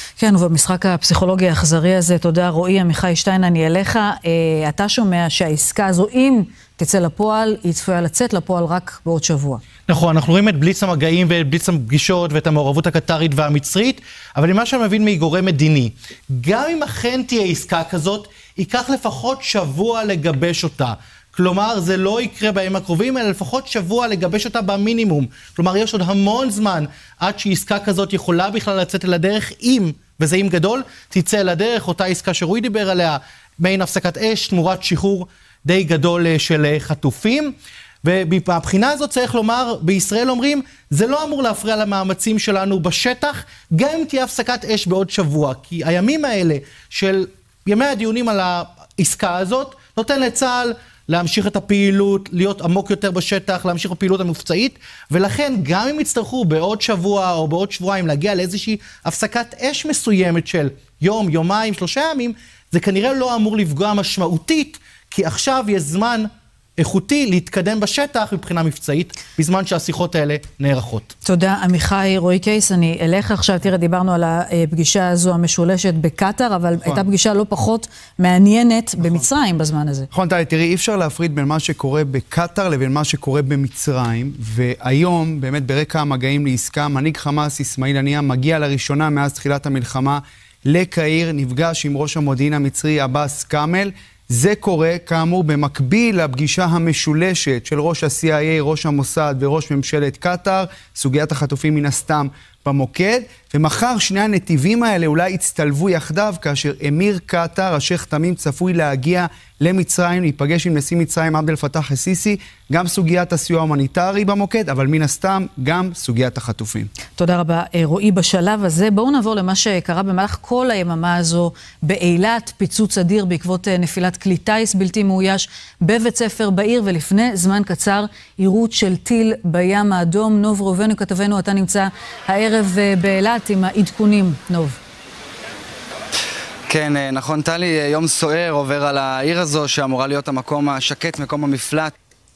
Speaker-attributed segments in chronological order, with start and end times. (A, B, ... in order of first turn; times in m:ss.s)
0:00.2-0:09.6 A
0:09.9-1:11.1 B
1:11.2-1:20.1 A
1:16.8-1:17.1 C
1:20.1-1:56.9 C
1:57.2-2:14.8 A
2:16.7-2:21.9 D